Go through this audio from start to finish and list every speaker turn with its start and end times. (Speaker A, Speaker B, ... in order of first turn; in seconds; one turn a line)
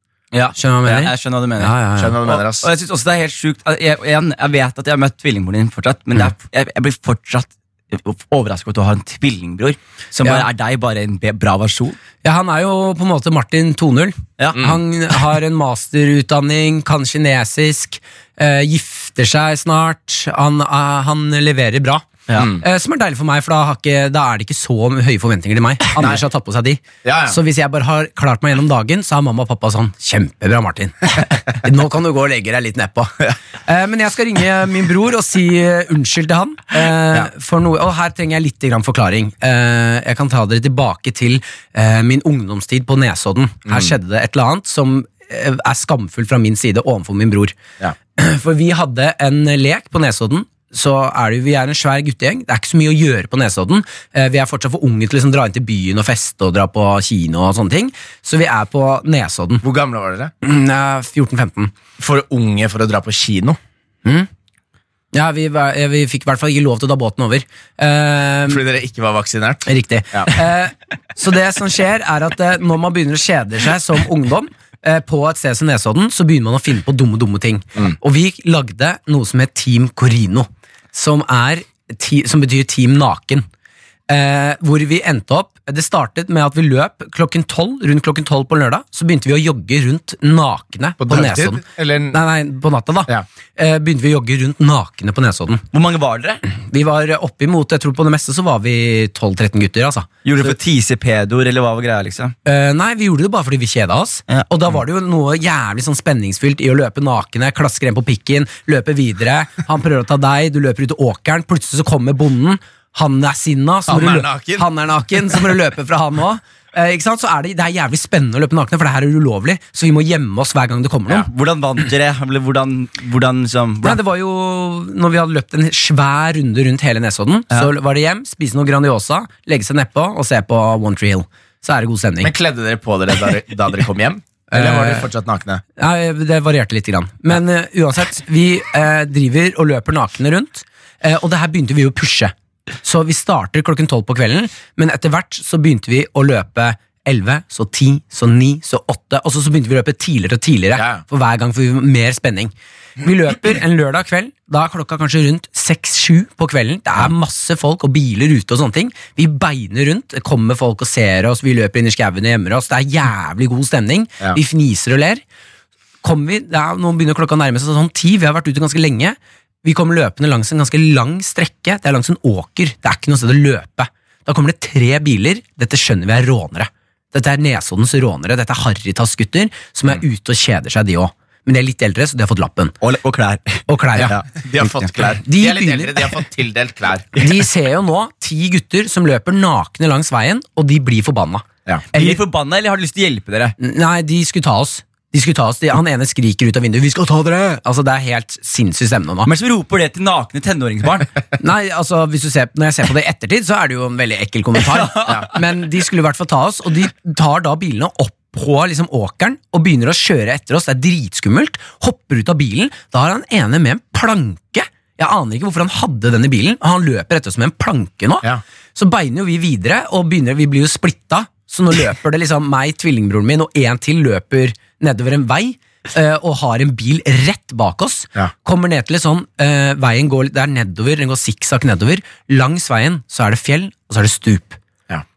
Speaker A: 0.3-1.8
Speaker B: 0.6-2.2
Speaker C: 2.0-2.7
Speaker A: 2.3-12.0
Speaker B: 12.2-47.6
Speaker C: 27.0-27.4
Speaker C: 43.7-43.9
Speaker B: 48.2-59.6
Speaker C: 59.6-60.3
Speaker B: 60.4-61.7
Speaker C: 62.0-63.6
Speaker B: 65.1-68.6
Speaker C: 68.5-70.3
Speaker B: 69.7-83.5
Speaker B: 84.1-95.6
Speaker C: 91.0-92.2
Speaker A: 95.7-96.4
Speaker B: 96.5-100.5
Speaker A: 100.2-102.3
Speaker B: 102.5-121.3
Speaker C: 113.9-114.7
Speaker A: 121.1-124.0
Speaker B: 123.8-132.3
Speaker C: 132.2-135.6
Speaker B: 134.5-135.1
Speaker B: 135.8-165.2
Speaker B: 166.0-182.8
Speaker A: 182.8-184.7
Speaker B: 183.7-184.2
Speaker C: 184.0-187.2
Speaker B: 185.2-186.1
Speaker B: 187.2-192.2
Speaker A: 191.9-193.6
Speaker B: 193.6-199.3
Speaker A: 199.3-201.1
Speaker B: 201.4-234.6
Speaker A: 204.7-205.2